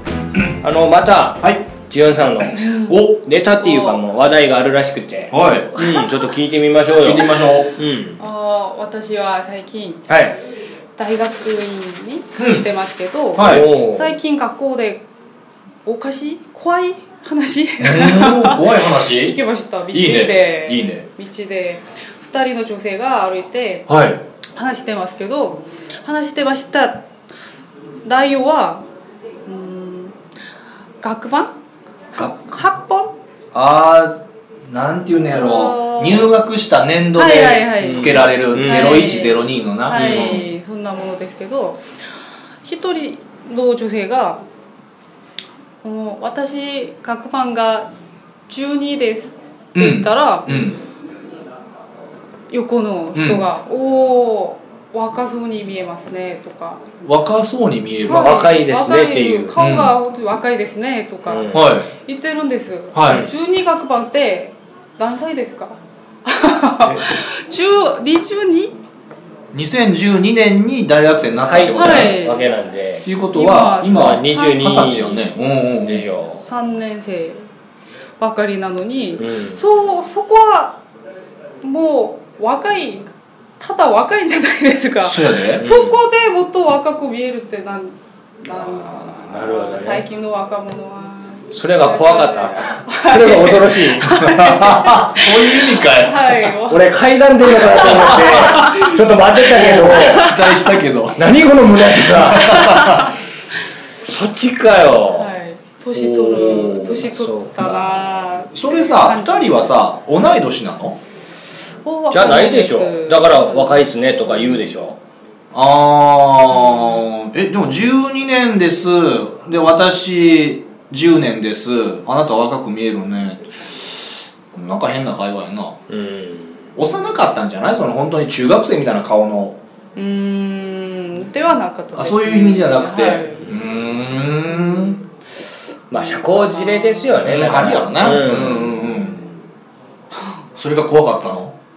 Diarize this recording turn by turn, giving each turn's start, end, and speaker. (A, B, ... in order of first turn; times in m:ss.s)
0:00.6-0:02.6 A
0:02.5-0:03.0 B
0:02.9-0:03.2 C
0:03.2-0:08.2 A
0:03.6-0:04.0 B
0:05.3-0:05.7 C
0:05.8-0:06.0 B
0:07.0-0:07.7 C
0:08.2-0:10.1 B
0:10.1-0:10.4 A
0:11.0-0:15.0 B
0:12.4-0:12.6 C
0:13.3-0:13.7 C
0:13.4-0:14.1 A
0:15.8-0:23.9 B
0:17.8-0:19.4 C
0:19.9-0:21.0 C
0:23.9-0:24.2 C
0:24.6-0:27.0 B
0:28.0-0:28.8 B
0:29.4-0:30.2 B
0:31.0-0:31.5 B
0:32.1-0:32.5 C
0:32.5-0:33.1 B
0:33.5-0:40.4 C
0:35.3-0:36.3 B
0:37.1-0:41.8 B
0:37.8-0:39.3 A
0:39.9-0:40.4 A
0:42.6-0:44.4 B
0:45.8-0:47.9 B
0:48.5-0:50.5 B
0:49.7-0:50.8 C
0:50.5-0:50.7 A
0:52.5-0:56.9 B
0:53.1-0:53.4 C
0:57.0-0:58.4 C
0:58.1-1:08.7 B
0:58.1-0:59.5 A
0:59.6-1:00.0 C
1:01.2-1:01.7 A
1:01.5-1:01.9 C
1:02.9-1:03.3 C
1:06.8-1:07.2 C
1:09.5-1:12.2 C
1:11.4-1:13.1 A
1:11.7-1:12.5 B
1:13.0-1:16.1 C
1:13.3-1:14.8 B
1:13.8-1:16.4 A
1:16.4-1:17.5 B
1:18.2-1:20.8 B
1:19.2-1:19.6 A
1:21.6-1:38.9 B
1:25.0-1:25.6 C
1:25.6-1:26.0 A
1:28.5-1:30.0 A
1:31.5-1:34.4 A
1:34.2-1:36.5 C
1:36.7-1:40.3 A
1:37.7-1:38.9 C
1:39.4-1:43.1 C
1:39.8-1:40.7 B
1:41.2-1:43.0 A
1:42.3-1:43.0 B
1:44.0-1:45.3 A
1:45.1-1:49.8 B
1:45.9-1:47.1 C
1:46.9-1:48.0 A
1:48.5-1:51.0 C
1:51.8-1:54.7 B
1:52.1-1:55.0 A
1:55.5-2:05.8 C
2:05.9-2:06.6 A
2:06.8-2:09.6 C
2:09.9-2:13.7 B
2:11.9-2:15.0 C
2:14.5-2:15.0 B
2:15.9-2:18.8 A
2:15.9-2:17.6 B
2:17.2-2:19.2 C
2:18.3-2:19.4 B
2:20.1-2:20.4 B
2:20.6-2:21.5 C